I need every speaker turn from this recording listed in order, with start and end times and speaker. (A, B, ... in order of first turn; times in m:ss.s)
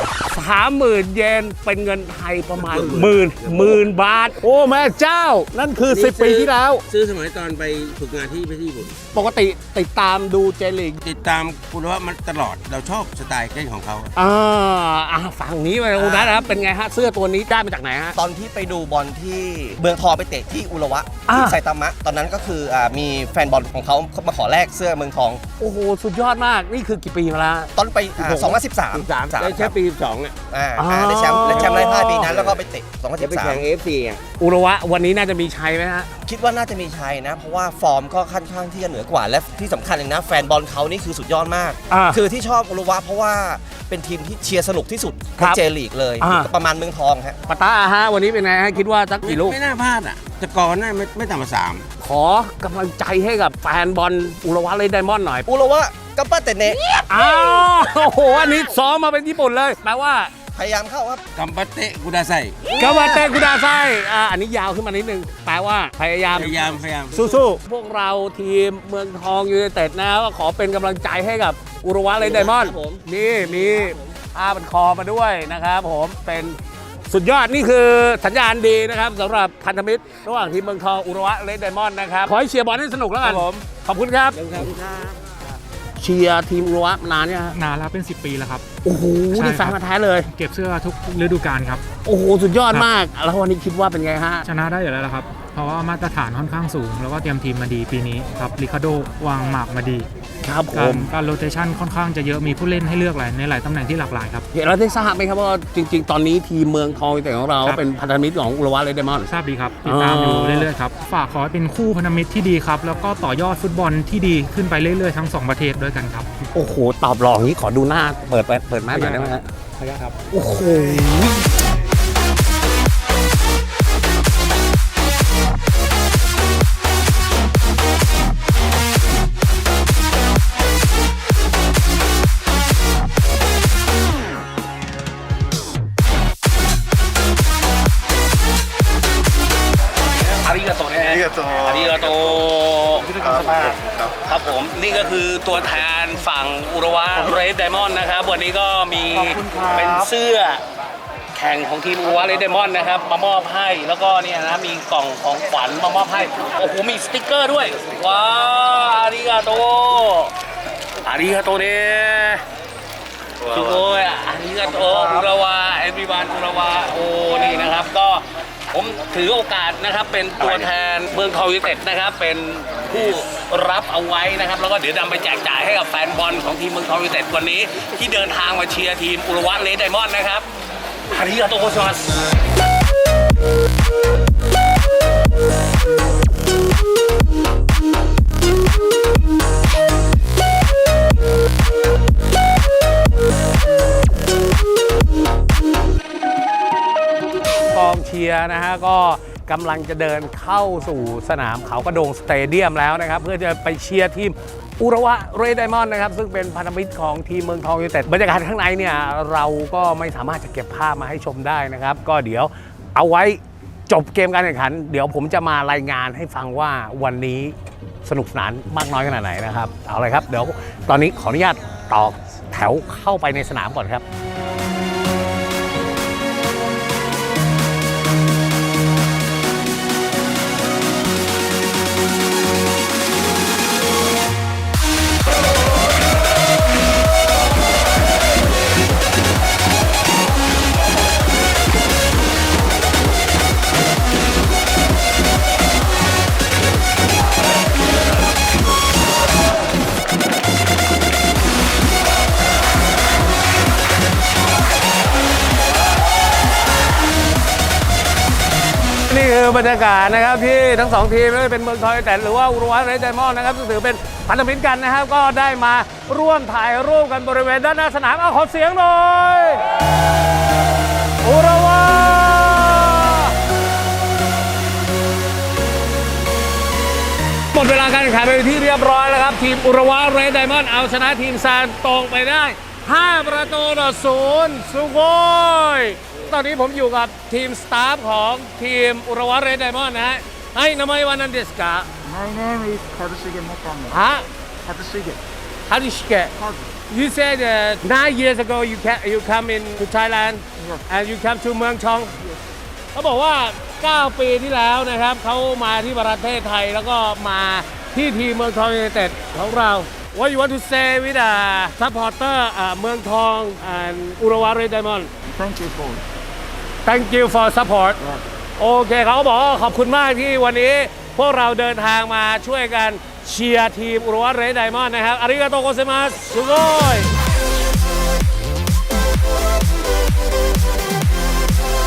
0:00.3-0:06.8 A
0:02.6-0:03.8 B
0:05.9-0:09.0 B
0:09.1-0:11.0 A
0:11.0-0:14.1 B
0:14.2-0:18.2 A
0:16.0-0:16.5 C
0:18.2-0:25.4 C
0:21.3-0:21.6 A
0:25.6-0:27.7 A
0:27.8-0:29.8 C
0:28.2-0:30.3 B
0:30.5-0:33.7 C
0:30.8-0:32.3 A
0:31.7-0:32.5 B
0:33.2-0:34.2 B
0:34.4-0:36.1 A
0:36.2-0:47.4 C
0:41.9-0:42.2 A
0:46.2-0:46.5 A
0:47.5-0:49.6 A
0:49.2-0:51.8 B
0:52.0-0:55.5 A
0:55.5-0:56.9 C
0:57.1-1:00.3 A
1:00.5-1:01.2 C
1:01.4-1:02.6 B
1:02.7-1:06.5 A
1:06.4-1:07.1 B
1:07.1-1:24.6 A
1:12.5-1:13.0 C
1:23.3-1:23.6 B
1:24.4-1:25.1 B
1:26.0-1:27.6 A
1:27.5-1:28.6 D
1:28.8-1:30.3 A
1:29.3-1:29.8 D
1:30.3-1:31.8 D
1:32.0-1:34.5 A
1:34.4-1:40.0 D
1:40.4-1:41.1 A
1:40.7-1:44.4 D
1:44.5-1:49.3 A
1:49.3-1:56.3 D
1:49.8-1:50.7 A
1:56.5-1:59.4 A
1:58.9-2:00.2 D
2:00.3-2:01.5 A
2:20.2-2:30.6 A
2:31.3-2:40.3 A
2:41.0-2:42.4 A
2:43.4-3:00.5 A
3:01.1-3:02.2 A
3:17.7-3:44.0 A
4:19.1-4:29.7 A
4:31.2-4:33.3 A
4:37.5-4:51.9 A
4:52.0-4:54.0 E
4:53.9-4:54.3 A
4:54.7-4:55.2 E
4:55.7-4:56.3 A
4:56.9-5:02.2 A
5:02.9-5:15.1 A
5:15.3-5:16.0 E
5:16.8-5:18.0 A
5:18.6-5:27.1 A